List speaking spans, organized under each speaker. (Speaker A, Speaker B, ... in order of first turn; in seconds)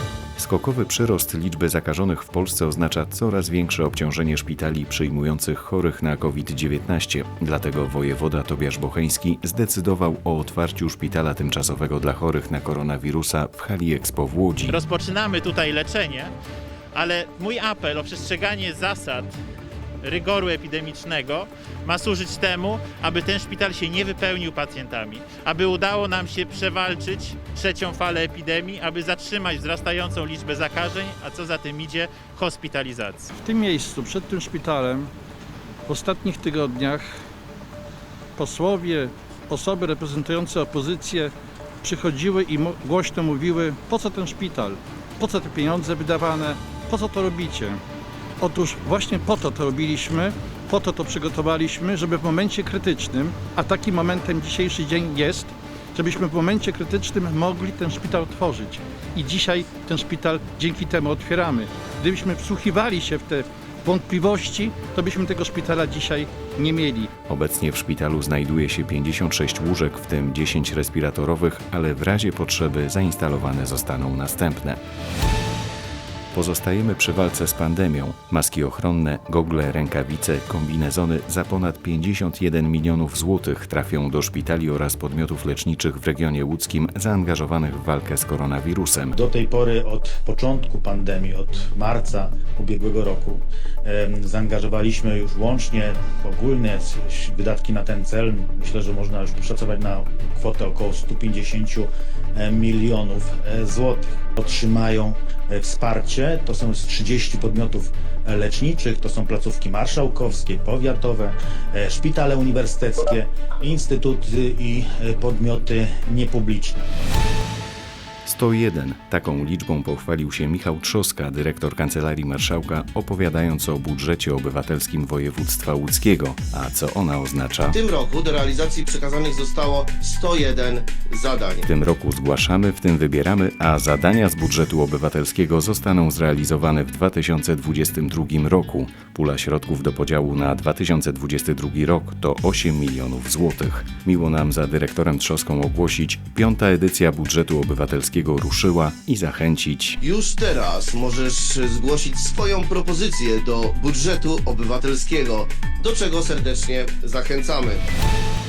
Speaker A: 0.4-14.8, 67.3-74.8, 76.3-89.2, 118.2-127.8, 131.6-150.0
Speaker B: 14.6-16.3, 16.9-19.3, 20.0-33.3
Speaker C: 33.3-35.1, 35.9-37.2, 38.4-47.8, 48.4-67.1
Speaker D: 89.1-116.9
Speaker E: 127.7-131.7, 150.0-157.8